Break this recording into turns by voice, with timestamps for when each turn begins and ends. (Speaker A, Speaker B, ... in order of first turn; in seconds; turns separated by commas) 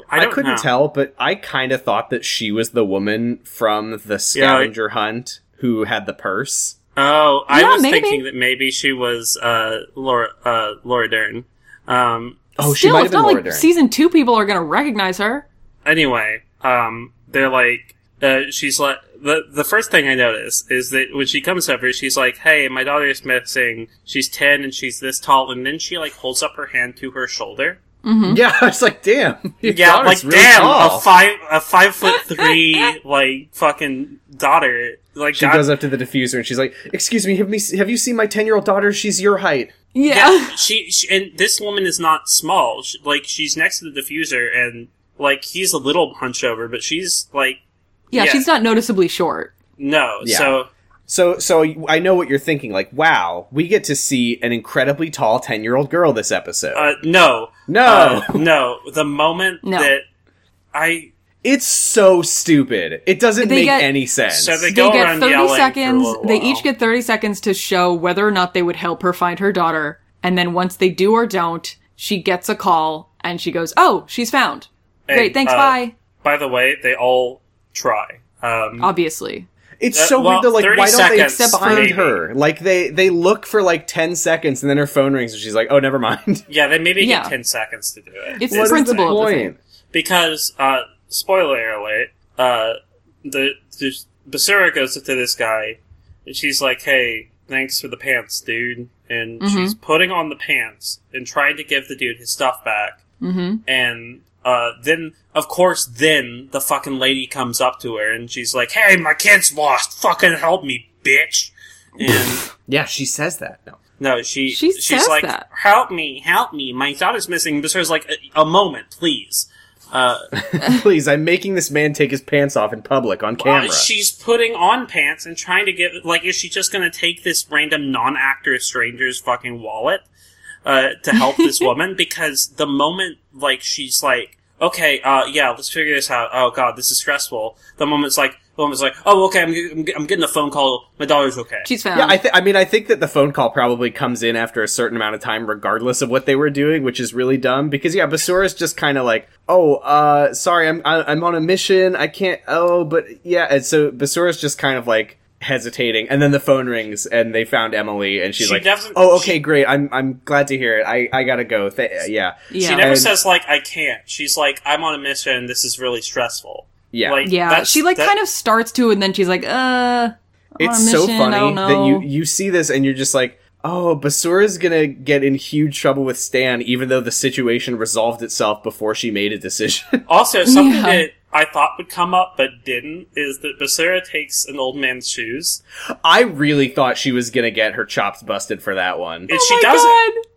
Speaker A: 0.1-0.7, Speaker B: 0.1-6.8, Speaker A: 4.3-4.7, Speaker A: 7.0-12.4, Speaker C: 7.5-8.2, Speaker B: 12.6-13.7, Speaker C: 12.6-15.5, Speaker A: 15.8-27.8, Speaker C: 28.0-28.4, Speaker B: 28.3-31.1, Speaker A: 29.6-35.7, Speaker C: 32.2-32.9, Speaker B: 35.4-39.7, Speaker C: 39.9-40.6, Speaker A: 40.1-47.6, Speaker C: 48.1-49.5, Speaker A: 48.1-48.5, Speaker A: 49.8-50.7, Speaker B: 50.2-50.5, Speaker B: 51.1-56.9, Speaker A: 56.7-60.0, Speaker B: 57.7-58.4, Speaker C: 59.6-59.9, Speaker A: 60.7-61.1, Speaker B: 61.4-64.7, Speaker C: 63.4-63.9, Speaker A: 64.3-66.7, Speaker C: 64.7-75.9, Speaker A: 75.1-78.9, Speaker C: 78.8-79.5, Speaker B: 79.8-86.5, Speaker A: 79.9-82.2, Speaker C: 81.1-82.0, Speaker A: 86.5-89.2, Speaker C: 87.0-87.3, Speaker C: 88.4-89.5, Speaker B: 88.5-89.6, Speaker A: 89.9-103.0, Speaker C: 99.4-99.8, Speaker C: 103.2-103.6, Speaker A: 103.7-112.5, Speaker B: 112.7-113.8, Speaker A: 114.0-120.3, Speaker C: 114.5-115.5, Speaker B: 120.4-123.9, Speaker A: 123.4-130.1, Speaker A: 130.7-141.7, Speaker C: 131.2-131.7, Speaker C: 141.7-142.2, Speaker B: 141.9-163.2, Speaker A: 158.4-159.4, Speaker C: 162.5-163.0, Speaker A: 162.6-168.1, Speaker B: 166.9-167.3, Speaker C: 167.2-172.1, Speaker B: 170.6-180.0, Speaker A: 180.1-185.6, Speaker C: 180.4-181.1, Speaker B: 186.0-189.3, Speaker A: 189.3-190.0, Speaker C: 189.3-190.2